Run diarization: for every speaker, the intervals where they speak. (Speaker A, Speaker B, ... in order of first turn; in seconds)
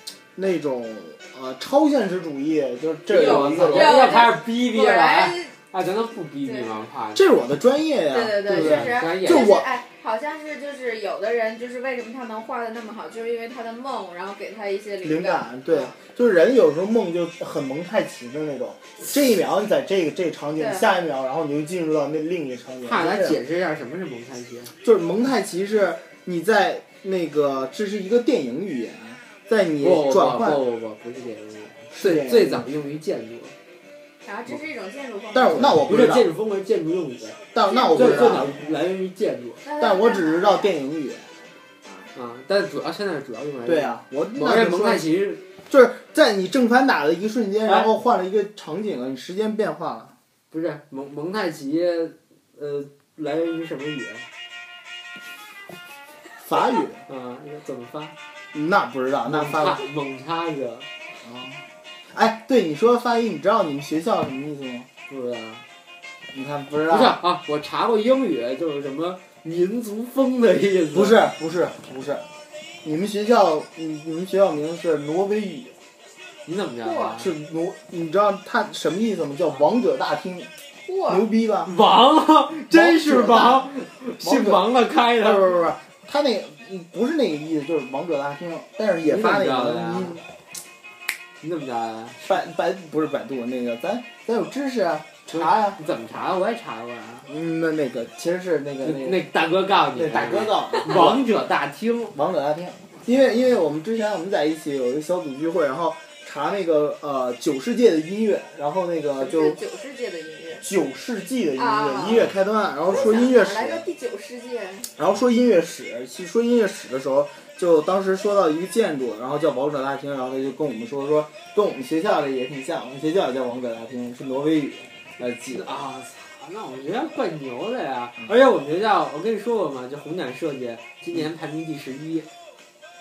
Speaker A: 0.3-4.2, 7.1-9.7, 15.0-23.4, 24.8-30.6, 31.9-32.7, 35.3-36.3, 37.5-38.7, 39.8-41.3, 43.6-45.1, 45.7-50.1, 56.4-57.0, 58.5-59.8, 61.2-64.9, 66.3-67.2, 70.9-72.3, 72.8-75.8, 77.2-80.5, 81.1-81.7, 82.7-84.7, 85.2-90.2, 92.2-95.8, 97.3-99.2, 100.0-101.3, 102.1-109.6, 110.6-113.8, 115.0-125.8
Speaker B: 3.1-7.3, 8.5-9.6, 22.8-24.7, 29.8-33.5, 35.6-39.6, 42.1-45.4, 47.6-47.9, 50.5-54.3, 57.1-58.1, 59.3-60.9, 65.1-65.7, 66.9-71.3, 76.5-77.3, 81.7-85.6, 89.1-90.2, 91.4-92.2, 95.3-97.3, 98.8-102.2, 125.5-132.3
Speaker C: 3.1-5.5, 6.5-6.7, 8.1-16.0, 20.6-20.9, 34.2-35.8, 37.7-38.5, 39.6-40.7, 41.9-42.1, 76.8-77.2, 80.9-81.3, 109.2-110.7, 111.6-112.3, 112.9-114.9